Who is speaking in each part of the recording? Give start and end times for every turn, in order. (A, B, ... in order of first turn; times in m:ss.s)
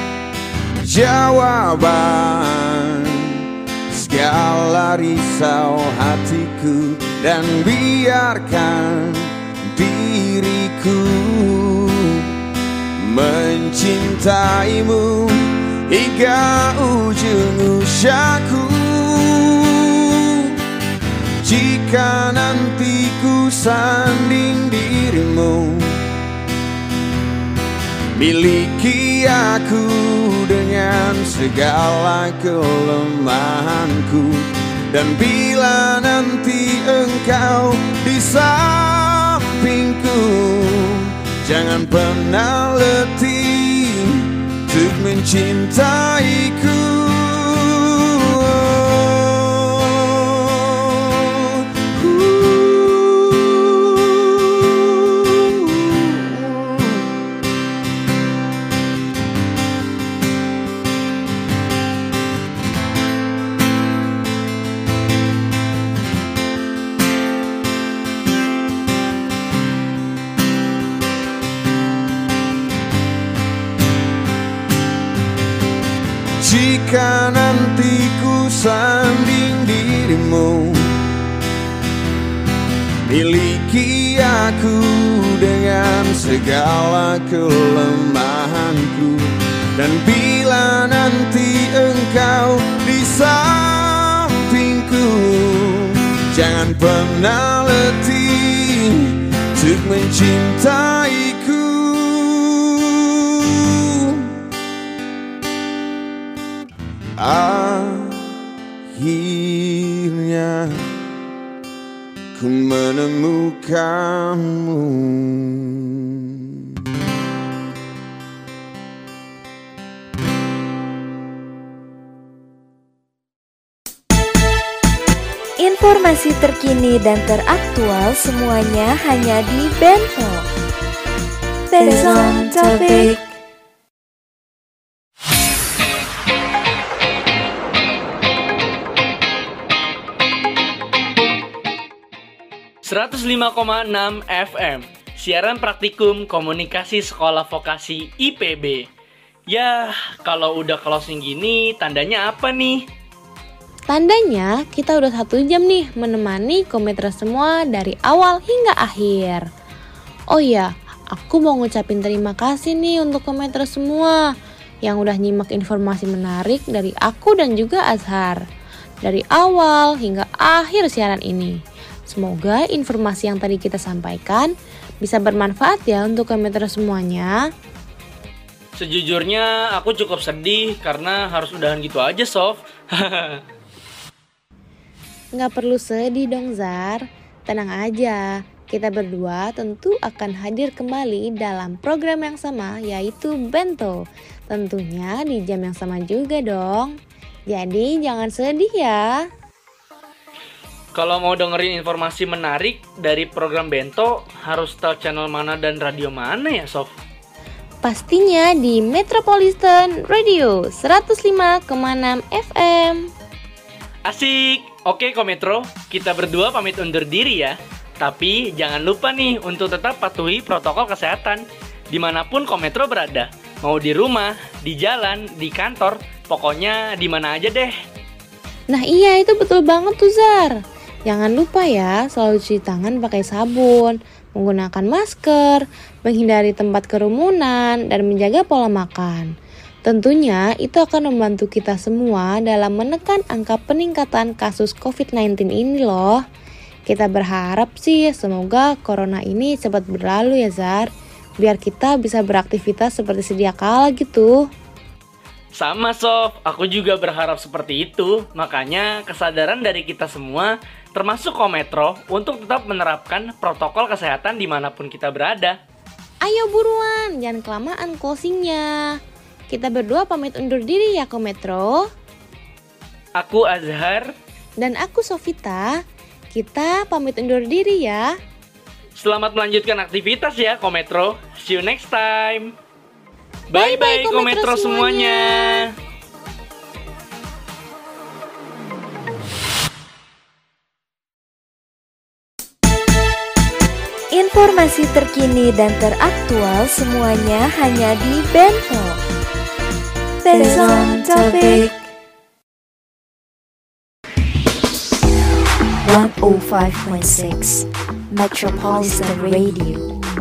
0:00.8-0:12.3 A
0:13.0-0:20.5 A
0:21.4-0:26.0 A
0:28.2-0:57.1 A
1:16.4-1:21.0 A
1:23.1-1:44.3 A
1:47.2-1:48.3 A
1:48.9-1:50.9 A
1:52.4-1:56.6 A
2:05.6-2:10.5 B
2:11.7-2:13.3 B
2:22.8-2:28.9 C
2:29.5-2:32.9 C
2:33.9-2:39.4 D
2:40.3-2:44.2 D
2:44.8-2:48.4 D
2:49.0-2:57.4 D
2:58.8-3:03.4 C
3:05.4-3:17.0 D
3:17.5-3:19.1 D
3:20.9-3:26.9 C
3:27.8-3:33.1 D
3:34.1-3:47.7 C
3:48.7-3:50.6 D
3:51.1-3:59.3 D
3:59.8-4:06.2 D
4:06.9-4:10.9 D
4:11.4-4:14.4 D
4:15.6-4:25.6 C
4:26.2-4:29.0 D
4:29.5-4:31.9 D
4:33.2-4:34.1 C
4:34.6-4:35.8 D
4:36.3-4:38.1 D
4:39.0-4:42.6 C
4:43.5-4:45.7 C
4:43.6-4:45.6 D
4:54.1-4:59.0 B
5:00.2-5:01.9 B
5:05.8-5:09.9 E